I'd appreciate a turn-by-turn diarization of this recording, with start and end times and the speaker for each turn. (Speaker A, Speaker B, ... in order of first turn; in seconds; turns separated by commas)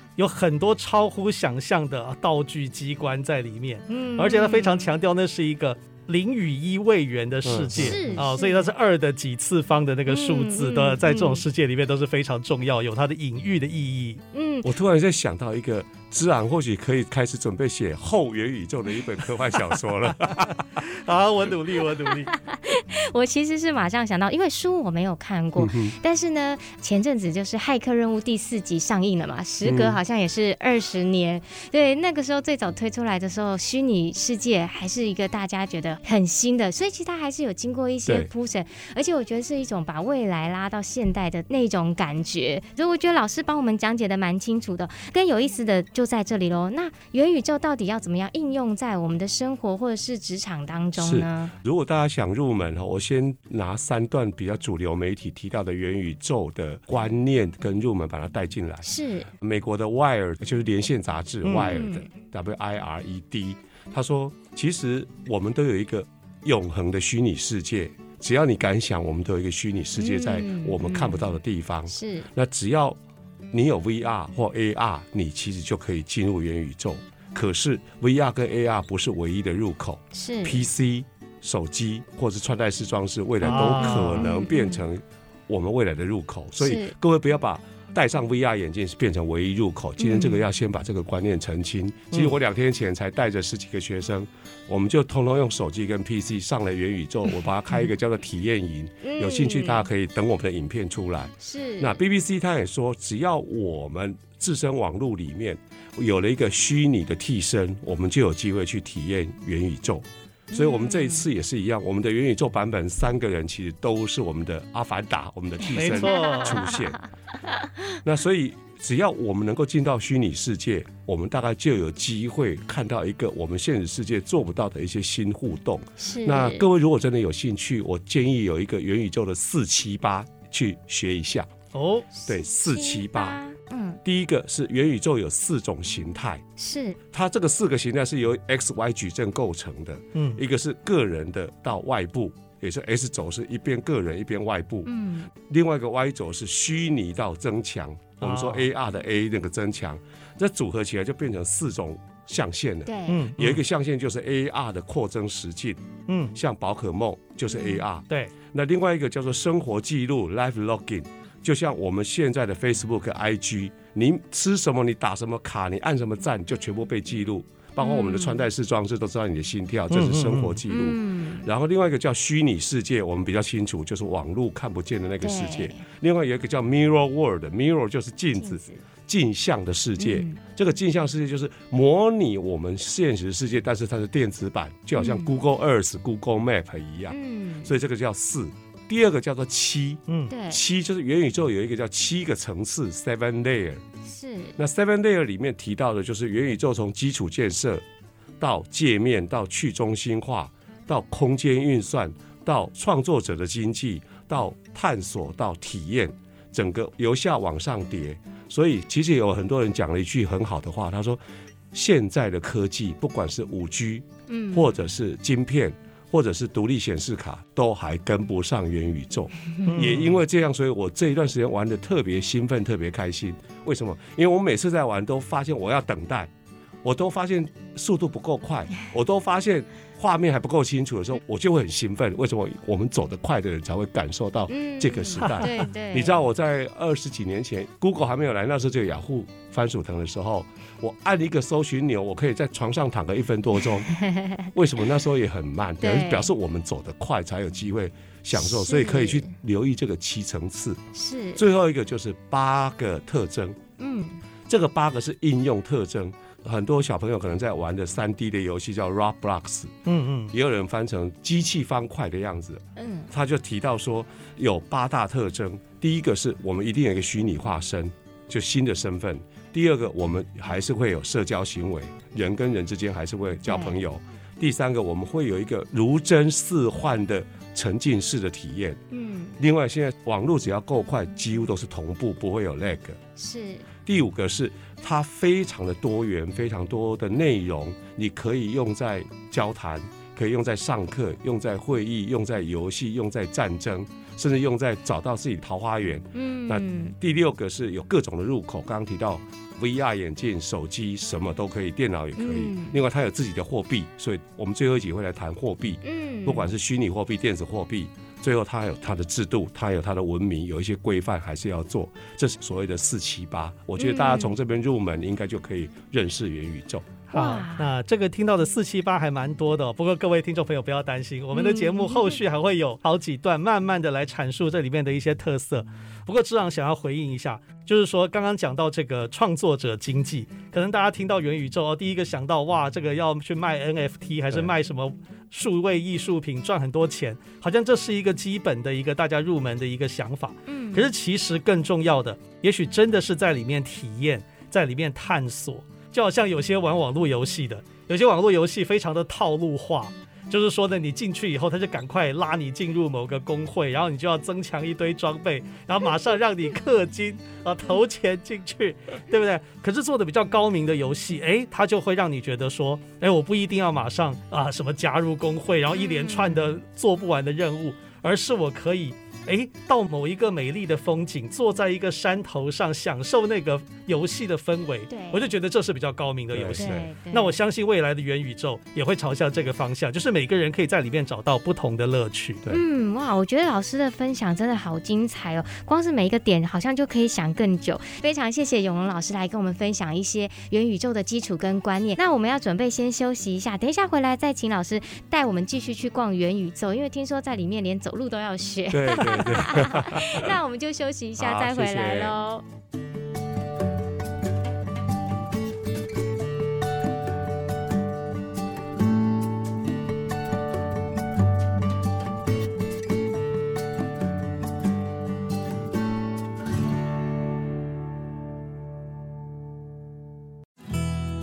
Speaker A: 0.2-14.2, Speaker B: 3.9-4.9, Speaker C: 7.4-8.2, Speaker B: 7.8-8.7, Speaker B: 10.1-11.4, Speaker B: 14.3-14.7, Speaker C: 14.6-20.8, Speaker A: 20.8-22.3, Speaker B: 22.3-51.5, Speaker C: 25.6-25.9, Speaker C: 29.6-30.0, Speaker C: 38.0-38.3, Speaker C: 51.0-73.0, Speaker B: 58.8-59.3, Speaker A: 61.5-61.7, Speaker B: 61.6-62.1, Speaker B: 70.0-71.3, Speaker B: 71.9-72.3, Speaker C: 73.5-117.0, Speaker B: 80.1-80.6, Speaker A: 83.4-84.3, Speaker B: 83.4-84.8, Speaker B: 86.6-86.9, Speaker B: 90.0-90.4, Speaker B: 99.0-99.8, Speaker B: 101.4-102.0, Speaker B: 110.5-111.2, Speaker A: 115.7-116.6, Speaker B: 116.0-117.0, Speaker C: 118.0-131.5, Speaker B: 126.0-126.7, Speaker A: 131.7-132.1, Speaker B: 132.1-134.0, Speaker C: 132.3-133.4, Speaker C: 134.0-136.4, Speaker B: 136.6-137.0, Speaker C: 137.1-155.8, Speaker A: 140.2-140.4, Speaker B: 144.9-145.3, Speaker A: 148.2-148.7, Speaker B: 152.9-153.3, Speaker A: 153.1-153.6, Speaker A: 156.1-156.3, Speaker C: 156.3-193.8, Speaker B: 157.5-157.8, Speaker B: 167.8-168.4, Speaker A: 169.9-170.6, Speaker B: 170.7-171.5, Speaker B: 175.2-175.8, Speaker B: 178.4-178.8, Speaker B: 180.0-180.4, Speaker B: 185.0-185.3, Speaker B: 187.1-187.8, Speaker B: 190.3-190.6, Speaker B: 194.0-194.6, Speaker C: 194.6-197.8, Speaker C: 198.4-211.2, Speaker C: 211.7-226.3, Speaker B: 214.3-214.7, Speaker A: 219.7-220.2, Speaker C: 226.8-243.9, Speaker B: 234.5-236.2, Speaker A: 235.2-235.5, Speaker B: 243.9-244.5, Speaker C: 244.5-250.8, Speaker B: 245.8-246.3, Speaker B: 248.3-249.3, Speaker B: 250.9-251.4, Speaker C: 251.3-253.6, Speaker B: 253.8-254.2, Speaker C: 254.5-259.7, Speaker A: 259.9-260.3, Speaker C: 260.3-278.8, Speaker B: 262.8-263.1, Speaker B: 273.5-273.8, Speaker B: 278.9-279.4, Speaker C: 279.4-283.0, Speaker B: 283.2-283.7, Speaker C: 283.9-317.0, Speaker B: 296.1-296.9, Speaker B: 302.2-302.8, Speaker B: 305.8-306.5, Speaker B: 313.8-314.3, Speaker A: 317.1-382.4, Speaker B: 317.1-317.7, Speaker B: 321.3-322.2, Speaker B: 340.5-340.9, Speaker B: 365.7-366.6, Speaker B: 374.9-375.3, Speaker C: 376.3-376.9, Speaker B: 376.6-377.4, Speaker B: 382.5-402.4, Speaker C: 398.7-400.3, Speaker C: 401.2-402.2